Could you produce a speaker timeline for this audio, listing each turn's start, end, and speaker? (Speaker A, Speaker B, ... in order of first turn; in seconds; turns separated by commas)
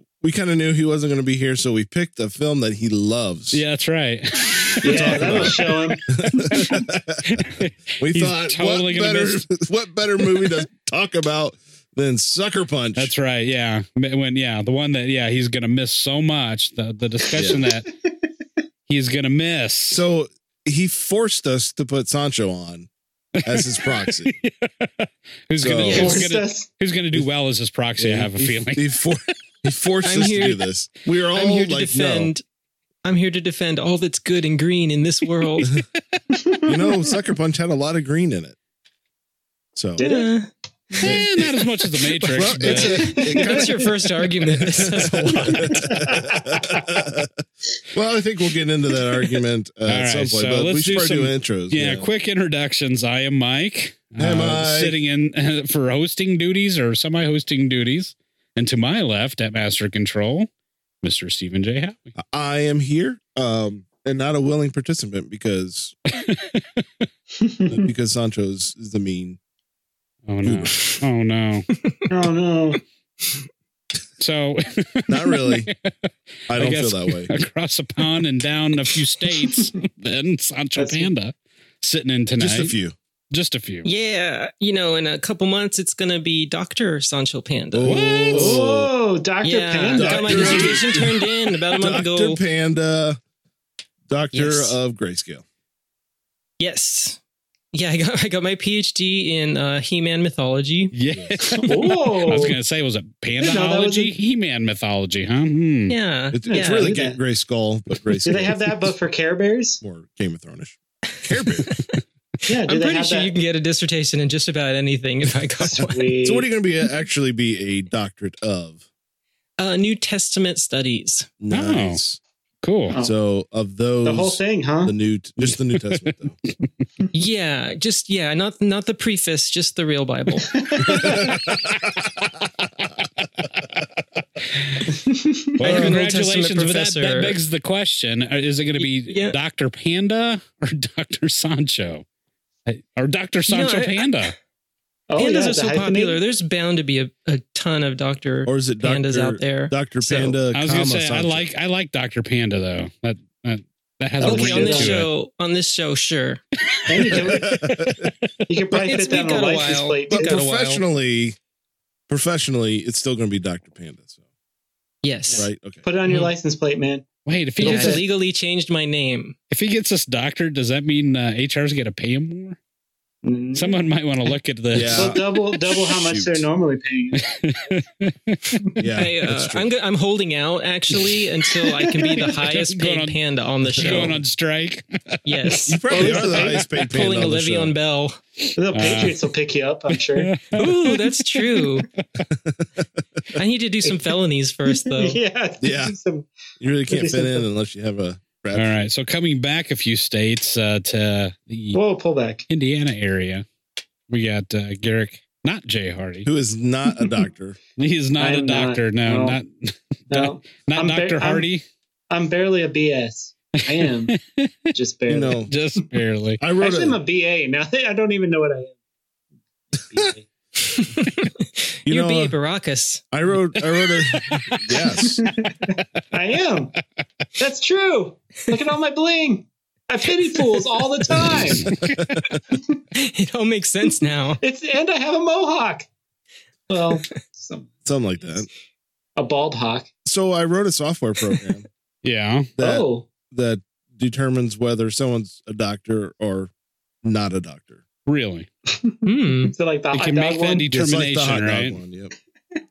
Speaker A: 0.2-3.6, Speaker B: 3.5-5.7, Speaker C: 4.8-6.6, Speaker A: 4.8-13.1, Speaker B: 6.4-9.4, Speaker B: 12.9-17.9, Speaker A: 17.4-17.6, Speaker C: 17.5-17.9, Speaker B: 18.9-20.0, Speaker A: 19.9-22.9, Speaker B: 23.4-28.8, Speaker A: 23.4-24.4, Speaker A: 25.6-26.2, Speaker D: 25.7-26.3, Speaker C: 25.9-26.7, Speaker A: 28.0-32.3, Speaker D: 30.0-30.6, Speaker D: 31.3-32.4, Speaker D: 33.0-35.7, Speaker C: 36.3-37.0, Speaker A: 36.6-38.5, Speaker A: 39.7-40.0, Speaker C: 40.0-40.3, Speaker D: 40.0-40.5, Speaker C: 40.9-41.2, Speaker A: 41.0-41.6, Speaker B: 41.0-43.2, Speaker A: 42.2-47.4, Speaker D: 42.5-45.9, Speaker C: 42.7-43.6, Speaker C: 45.8-46.8, Speaker A: 47.9-52.1, Speaker B: 49.9-60.5, Speaker A: 54.2-55.0, Speaker B: 61.0-62.1, Speaker A: 62.2-66.0, Speaker B: 66.1-67.0, Speaker C: 67.4-67.8, Speaker A: 67.7-69.4, Speaker B: 70.3-71.7, Speaker A: 70.4-70.8, Speaker C: 72.1-72.8, Speaker B: 74.2-82.7, Speaker A: 75.1-75.7, Speaker A: 76.5-77.3, Speaker C: 80.8-81.1, Speaker A: 82.4-82.9, Speaker B: 83.3-83.9, Speaker D: 83.8-88.0, Speaker A: 87.7-88.9, Speaker B: 87.8-88.6, Speaker C: 88.3-91.0, Speaker D: 89.4-92.4, Speaker A: 89.9-93.2, Speaker A: 94.1-95.4, Speaker D: 94.3-94.8, Speaker D: 96.6-97.2, Speaker D: 97.7-100.9, Speaker B: 100.9-106.0, Speaker C: 101.5-102.6, Speaker C: 103.4-104.1, Speaker D: 105.9-106.9, Speaker A: 106.3-108.9, Speaker C: 106.5-107.2, Speaker C: 108.2-109.8, Speaker A: 109.8-111.8, Speaker D: 111.6-111.9, Speaker C: 112.5-113.3, Speaker D: 112.7-116.1, Speaker C: 115.8-116.5, Speaker A: 116.2-118.8, Speaker D: 119.6-121.3, Speaker A: 121.4-122.2, Speaker B: 121.5-122.0, Speaker B: 122.6-123.0, Speaker C: 122.9-123.1, Speaker A: 123.0-126.3, Speaker C: 124.0-124.9, Speaker D: 127.1-131.1, Speaker C: 130.5-131.3, Speaker A: 130.9-131.7, Speaker B: 130.9-132.1, Speaker B: 133.2-133.7, Speaker B: 134.4-134.9, Speaker C: 134.9-135.6, Speaker B: 135.6-142.0, Speaker D: 135.6-137.4, Speaker A: 135.6-136.0, Speaker D: 138.8-139.4, Speaker B: 142.7-144.3, Speaker D: 143.5-144.3, Speaker C: 145.1-146.2, Speaker D: 145.2-150.3, Speaker A: 148.4-151.4, Speaker B: 150.5-155.1, Speaker C: 154.2-155.0, Speaker D: 154.2-156.4, Speaker C: 156.8-157.7, Speaker B: 156.9-157.2, Speaker A: 157.2-158.1, Speaker C: 158.5-160.5, Speaker D: 158.7-160.8, Speaker A: 160.1-161.3, Speaker A: 162.1-164.2, Speaker D: 165.0-165.5, Speaker C: 165.3-167.1, Speaker A: 165.4-165.8, Speaker B: 167.2-168.0, Speaker C: 167.6-168.0, Speaker D: 167.6-169.3, Speaker B: 169.5-172.6, Speaker C: 173.2-173.8, Speaker B: 173.5-175.2, Speaker A: 174.7-176.4, Speaker C: 174.9-177.2, Speaker B: 177.2-178.6, Speaker A: 178.8-179.7, Speaker D: 178.9-184.2, Speaker B: 182.0-183.2, Speaker B: 183.7-185.6, Speaker A: 183.8-184.1, Speaker D: 185.2-188.2, Speaker A: 185.7-187.7, Speaker C: 185.9-186.6, Speaker C: 188.6-190.3, Speaker B: 188.7-189.2, Speaker B: 190.1-191.8, Speaker D: 190.6-191.9, Speaker A: 192.3-192.8, Speaker D: 193.3-195.2, Speaker C: 193.8-194.1, Speaker C: 194.7-196.3, Speaker A: 195.6-195.9, Speaker A: 196.6-198.8, Speaker C: 196.9-197.4, Speaker B: 198.5-201.8, Speaker C: 201.7-202.4, Speaker B: 202.5-203.4, Speaker B: 204.1-206.3, Speaker A: 206.2-207.6, Speaker B: 207.8-211.6, Speaker C: 208.2-209.4, Speaker C: 210.1-211.5, Speaker C: 212.1-214.1, Speaker B: 213.6-214.7, Speaker C: 214.7-215.5, Speaker A: 215.1-215.5, Speaker B: 215.5-216.4, Speaker A: 216.4-217.0, Speaker C: 216.6-218.7, Speaker C: 219.7-220.3, Speaker D: 220.7-223.1, Speaker A: 221.8-222.3, Speaker A: 223.1-225.2, Speaker B: 223.7-224.6, Speaker C: 224.9-226.7, Speaker C: 227.4-231.7, Speaker B: 231.3-232.1, Speaker A: 231.6-232.4, Speaker D: 232.9-234.4, Speaker C: 234.4-235.9, Speaker C: 236.7-237.7, Speaker A: 237.8-238.5, Speaker C: 239.2-239.9, Speaker A: 240.0-241.7, Speaker B: 242.0-242.5, Speaker A: 242.6-246.5, Speaker C: 242.6-243.1, Speaker A: 247.0-247.8, Speaker B: 248.0-248.5, Speaker C: 248.7-250.6, Speaker D: 249.0-249.5, Speaker B: 249.9-251.8, Speaker A: 250.7-252.1